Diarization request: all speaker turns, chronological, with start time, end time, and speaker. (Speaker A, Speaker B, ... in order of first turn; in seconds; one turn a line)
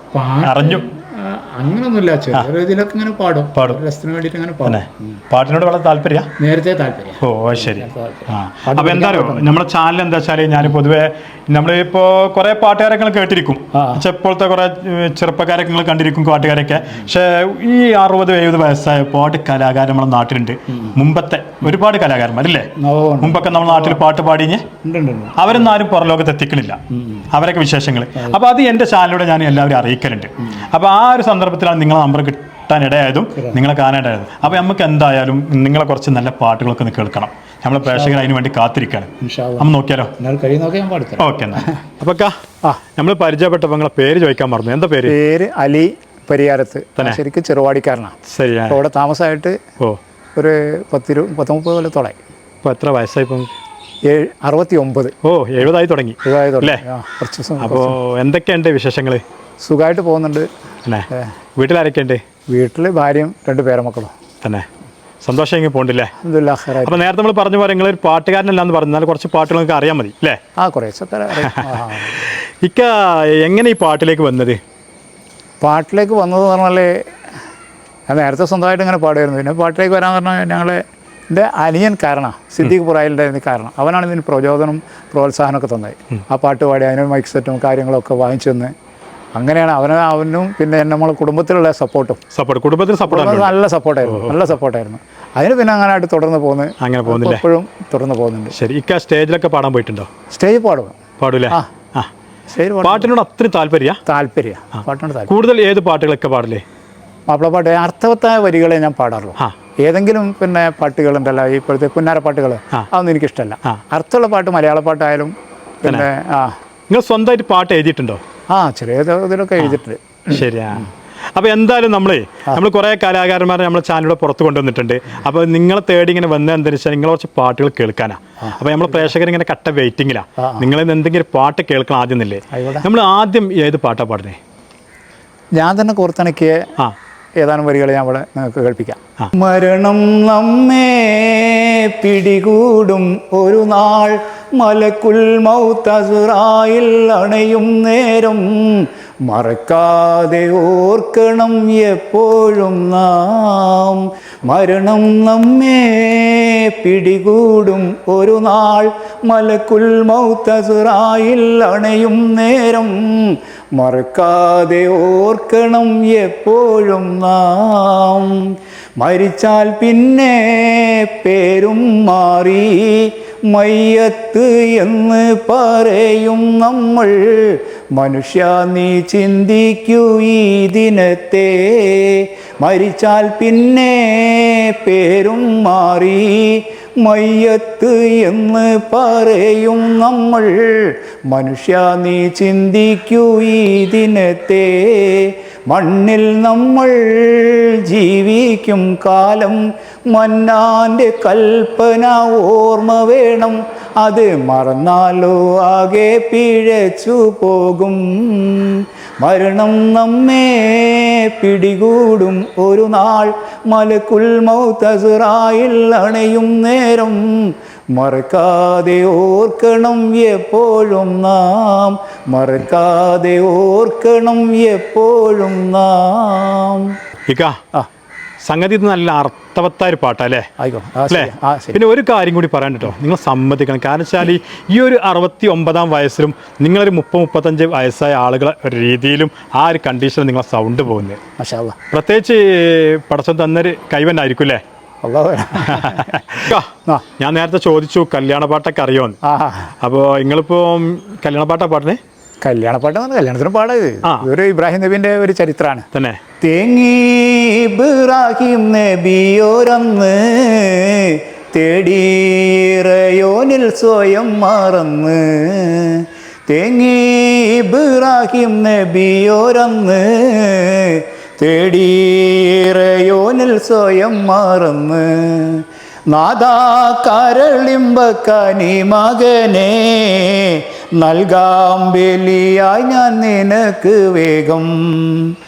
Speaker A: 0.1-5.2
Speaker B: 0.4-0.8
Speaker B: 4.6-6.3
Speaker A: 6.4-9.6
Speaker B: 7.2-22.7
Speaker A: 13.7-14.0
Speaker A: 22.8-24.0
Speaker B: 23.2-24.6
Speaker A: 24.8-25.7
Speaker B: 25.4-26.8
Speaker A: 27.0-27.2
Speaker B: 27.3-40.1
Speaker A: 33.4-33.6
Speaker A: 37.9-38.3
Speaker A: 39.2-39.7
Speaker A: 40.2-41.8
Speaker B: 41.2-42.3
Speaker B: 43.0-45.1
Speaker A: 45.0-48.1
Speaker B: 48.3-48.8
Speaker A: 48.7-49.5
Speaker A: 50.4-52.1
Speaker B: 52.6-53.5
Speaker A: 54.1-55.1
Speaker B: 55.2-56.8
Speaker A: 56.2-58.0
Speaker B: 57.6-59.2
Speaker A: 59.6-60.5
Speaker B: 60.9-62.2
Speaker A: 62.5-64.1
Speaker B: 64.4-64.7
Speaker B: 65.2-66.1
Speaker A: 66.2-67.0
Speaker B: 66.8-70.4
Speaker A: 70.6-72.3
Speaker B: 71.4-74.6
Speaker A: 75.6-76.9
Speaker A: 78.1-88.7
Speaker A: 89.3-92.2
Speaker B: 92.3-94.4
Speaker A: 93.1-98.5
Speaker B: 96.8-97.4
Speaker B: 98.5-100.1
Speaker A: 100.3-101.0
Speaker B: 101.2-102.1
Speaker A: 102.5-103.1
Speaker B: 102.8-104.0
Speaker A: 104.0-105.3
Speaker B: 105.3-106.6
Speaker A: 107.3-116.5
Speaker B: 116.9-118.2
Speaker A: 118.5-120.4
Speaker B: 120.3-134.4
Speaker A: 130.4-130.7
Speaker A: 132.5-132.9
Speaker A: 135.6-136.6
Speaker A: 137.4-226.9
Speaker B: 227.3-227.6
Speaker B: 228.4-230.5
Speaker A: 230.6-231.8
Speaker B: 231.1-241.2
Speaker A: 241.4-241.8
Speaker B: 241.9-244.6
Speaker A: 245.0-247.0
Speaker B: 245.6-249.2
Speaker A: 249.2-249.7
Speaker B: 249.8-252.0
Speaker A: 252.4-255.8
Speaker B: 255.9-256.2
Speaker A: 256.4-285.3